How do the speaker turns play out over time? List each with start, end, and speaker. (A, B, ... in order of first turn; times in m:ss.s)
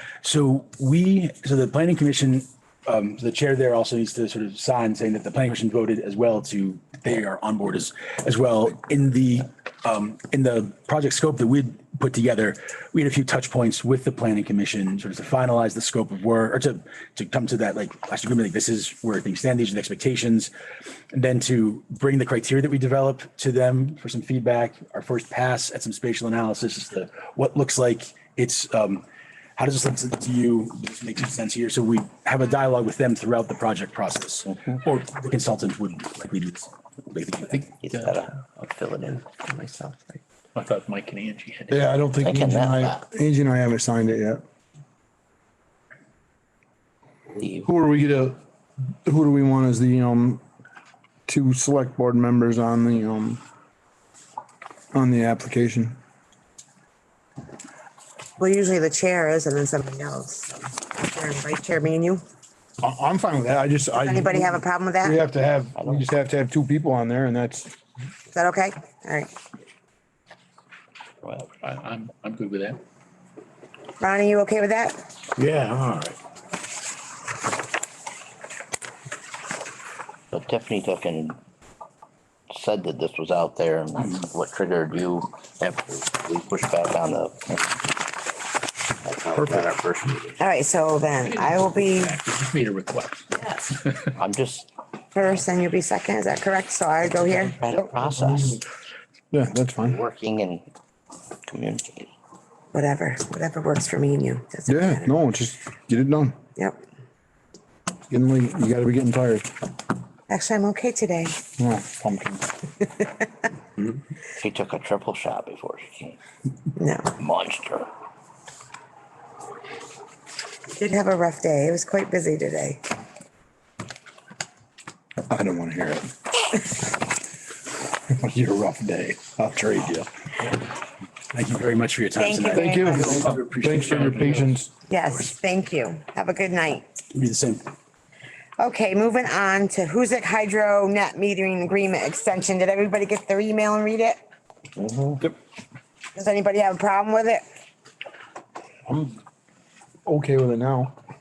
0:00.2-0:20.5 A
0:21.1-0:29.0 A
0:29.6-0:37.7 A
0:37.5-0:38.2 B
0:37.8-0:39.2 C
0:40.5-0:41.9 B
0:41.7-0:44.4 D
0:42.2-0:43.0 C
0:47.3-0:47.7 C
0:47.6-0:48.4 D
0:49.0-0:50.4 D
0:51.3-0:53.4 D
0:54.9-0:56.0 D
0:58.4-1:02.2 E
1:02.8-1:07.7 D
1:04.0-1:05.2 E
1:05.8-1:06.0 C
1:08.3-1:09.3 E
1:11.2-1:11.5 C
1:11.6-1:12.8 B
1:14.0-1:15.0 E
1:15.4-1:16.2 B
1:20.3-1:21.4 C
1:22.5-1:27.9 C
1:29.0-1:30.4 C
1:30.4-1:32.2 E
1:31.2-1:34.1 B
1:34.1-1:34.7 C
1:35.1-1:37.6 E
1:37.1-1:38.6 C
1:37.9-1:38.6 D
1:39.3-1:40.0 D
1:39.8-1:40.6 C
1:41.5-1:42.1 C
1:42.7-1:45.1 E
1:44.6-1:46.4 D
1:48.1-1:49.5 D
1:50.3-1:51.4 E
1:51.6-1:52.6 D
1:54.4-1:56.2 C
1:56.8-1:57.1 E
1:57.2-1:57.9 C
2:00.8-2:02.8 E
2:05.3-2:06.1 D
2:08.1-2:10.1 D
2:11.3-2:13.4 A
2:12.2-2:13.2 E
2:12.5-2:14.7 D
2:13.1-2:14.6 B
2:14.9-2:16.9 E
2:17.1-2:17.6 A
2:18.6-2:24.2 E
2:24.8-2:25.2 C
2:26.1-2:27.4 E
2:28.9-2:29.2 D
2:30.0-2:30.9 D